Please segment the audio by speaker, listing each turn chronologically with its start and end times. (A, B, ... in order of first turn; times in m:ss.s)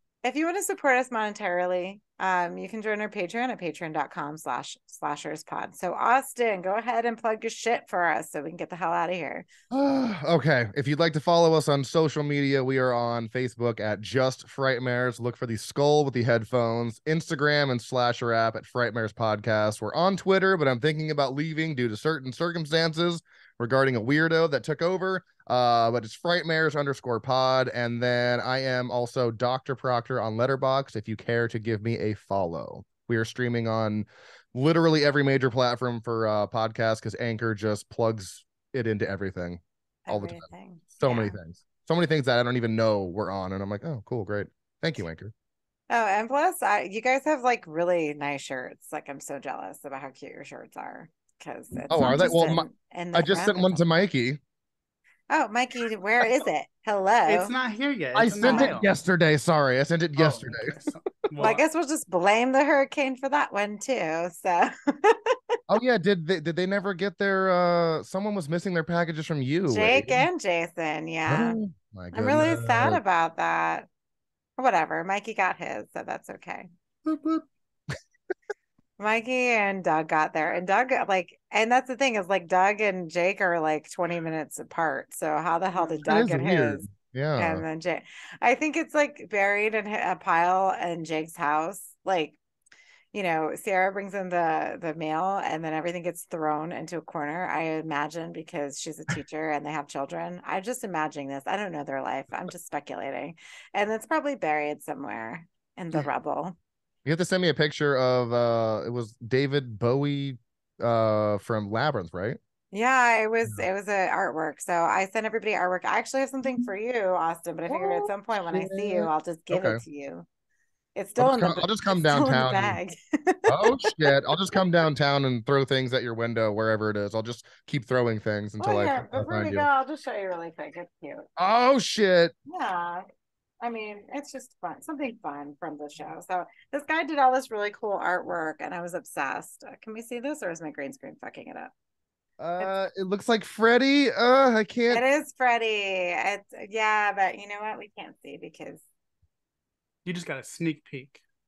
0:00.2-0:09.4 A
0:09.7-0:45.3 B
0:40.0-0:41.4 A
0:45.9-0:53.8 A
0:51.9-0:54.4 B
0:55.3-0:57.5 A
0:57.3-0:58.9 C
0:58.1-1:00.8 B
0:58.4-0:58.7 A
1:00.2-1:01.6 C
1:01.4-1:05.4 A
1:05.7-1:10.2 B
1:09.7-1:11.6 A
1:11.3-1:13.0 B
1:12.1-1:13.9 A
1:14.6-1:16.7 A
1:17.0-1:17.5 B
1:19.0-1:32.4 A
1:26.0-1:27.6 B
1:33.1-1:46.6 A
1:47.0-1:52.4 B
1:52.7-2:00.2 A
1:57.7-1:59.8 B
2:01.0-2:04.1 A
2:01.2-2:02.8 B
2:03.5-2:09.6 B
2:08.6-2:11.3 A
2:11.4-2:12.3 B
2:12.5-2:13.0 A
2:13.6-2:21.7 A
2:22.4-2:25.0 B
2:24.9-2:28.8 A
2:30.0-2:31.2 C